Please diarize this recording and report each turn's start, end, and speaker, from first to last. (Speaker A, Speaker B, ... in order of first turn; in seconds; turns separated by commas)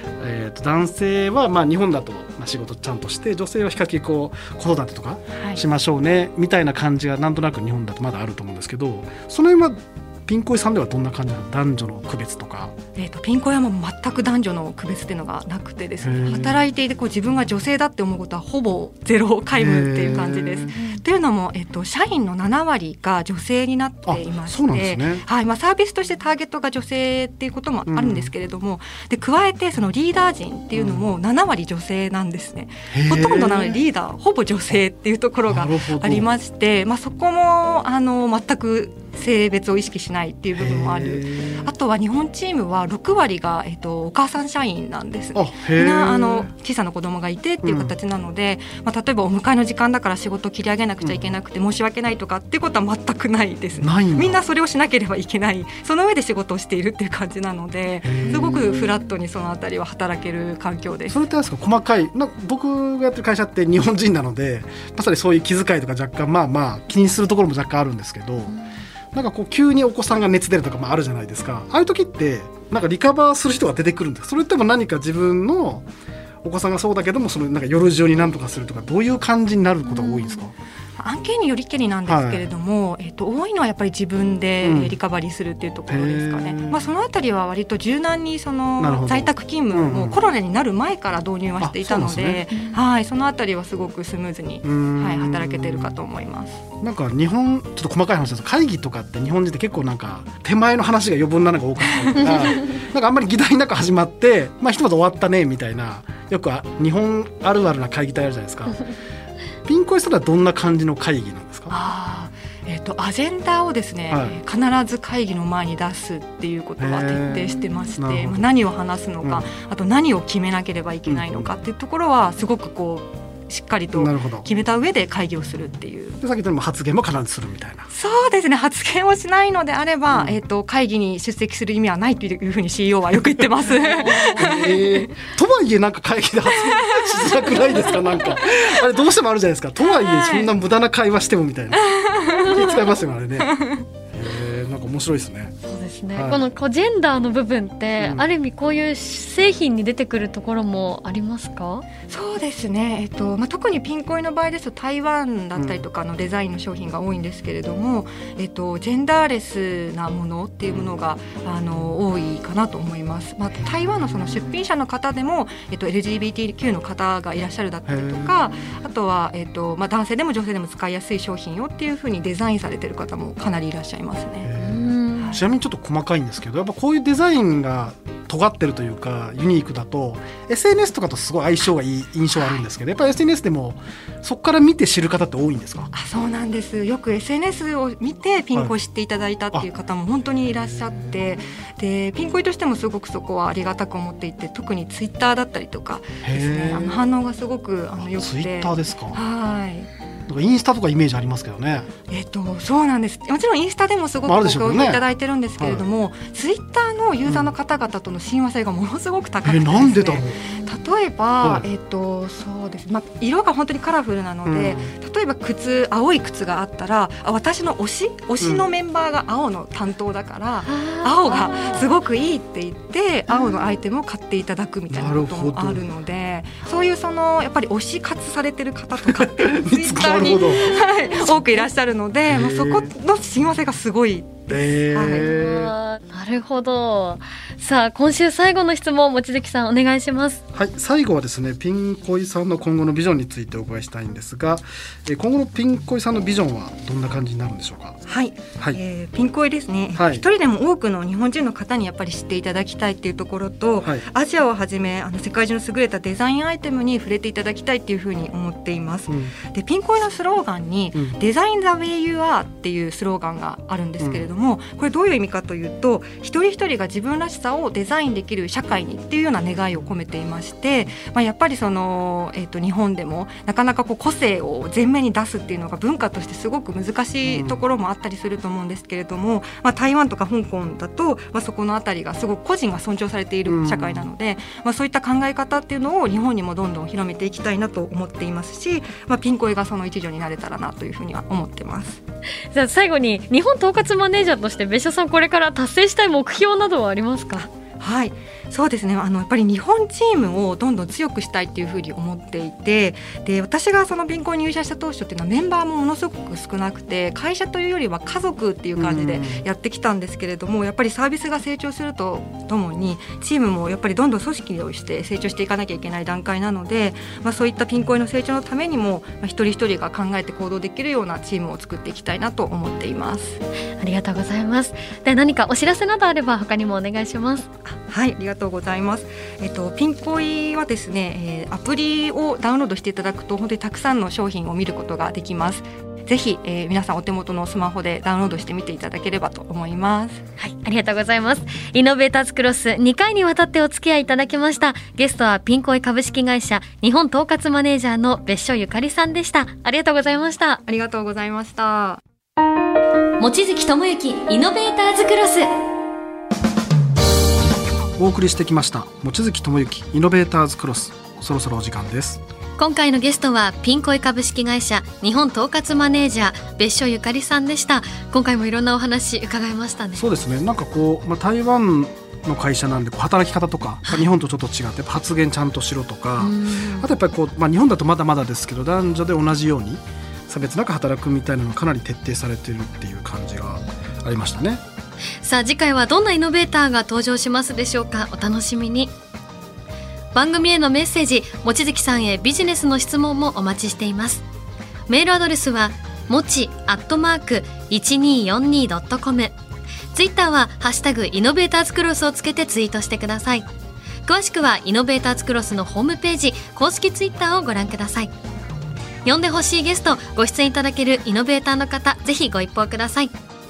Speaker A: 0.2-12.7, Speaker B: 5.3-5.6, Speaker B: 12.9-61.2, Speaker A: 16.0-16.6, Speaker A: 19.6-20.9, Speaker A: 24.1-25.2, Speaker A: 27.9-28.3, Speaker A: 30.8-31.1, Speaker A: 32.9-33.8, Speaker A: 35.5-36.3, Speaker A: 40.5-41.7, Speaker A: 45.3-46.5, Speaker A: 47.6-47.9, Speaker A: 51.0-51.3, Speaker A: 53.8-54.4, Speaker A: 58.0-58.8, Speaker C: 58.3-58.5, Speaker A: 61.1-68.6, Speaker A: 69.1-75.9, Speaker A: 76.4-80.5, Speaker B: 79.9-80.4, Speaker B: 81.0-96.6, Speaker A: 82.1-82.5, Speaker A: 84.6-85.0, Speaker A: 85.9-86.9, Speaker A: 88.8-90.2, Speaker A: 91.6-92.5, Speaker A: 94.6-95.9, Speaker A: 96.8-108.8, Speaker B: 101.9-102.7, Speaker A: 109.7-111.7, Speaker B: 111.7-126.2, Speaker A: 114.1-114.4, Speaker A: 116.8-118.5, Speaker A: 119.2-119.5, Speaker A: 121.1-121.5, Speaker A: 123.9-124.5, Speaker A: 126.2-127.9, Speaker B: 127.9-135.1, Speaker A: 130.1-130.4, Speaker A: 134.0-143.6, Speaker B: 136.6-138.3, Speaker B: 139.8-140.5, Speaker B: 141.8-142.8, Speaker B: 143.4-143.8, Speaker A: 144.1-145.6, Speaker C: 145.7-151.8, Speaker A: 146.1-146.4, Speaker A: 148.0-148.3, Speaker B: 152.1-174.5, Speaker A: 155.6-155.8, Speaker A: 164.0-164.3, Speaker A: 167.9-168.6, Speaker A: 174.4-185.9, Speaker C: 174.6-175.4, Speaker B: 175.2-175.4, Speaker B: 182.4-182.7, Speaker B: 185.9-199.9, Speaker A: 196.2-197.1, Speaker A: 198.0-199.2, Speaker A: 200.3-201.9, Speaker B: 202.1-235.3, Speaker A: 204.2-205.1, Speaker A: 205.6-205.8, Speaker A: 207.2-207.5, Speaker A: 209.4-210.5, Speaker A: 211.4-211.7, Speaker A: 214.5-214.9, Speaker A: 218.4-218.7, Speaker C: 220.7-221.9, Speaker A: 224.9-225.9, Speaker A: 229.1-230.9, Speaker C: 230.8-231.3, Speaker A: 232.3-232.9, Speaker A: 234.5-235.7, Speaker C: 235.1-240.4, Speaker A: 240.5-248.0, Speaker B: 248.1-292.0, Speaker A: 249.9-250.2, Speaker A: 264.0-264.3, Speaker A: 277.2-277.6, Speaker A: 283.5-284.1, Speaker C: 292.5-297.5, Speaker B: 297.8-323.4, Speaker A: 308.8-309.4, Speaker C: 323.8-327.4, Speaker B: 327.6-340.2, Speaker C: 340.4-350.6, Speaker B: 350.6-352.0, Speaker C: 353.2-355.5, Speaker A: 358.0-362.2, Speaker C: 362.6-370.1, Speaker A: 370.0-384.6, Speaker C: 376.2-376.9, Speaker C: 385.2-388.9, Speaker C: 390.1-394.2, Speaker C: 394.9-399.3, Speaker C: 399.9-403.5, Speaker C: 404.1-408.1, Speaker C: 409.1-413.1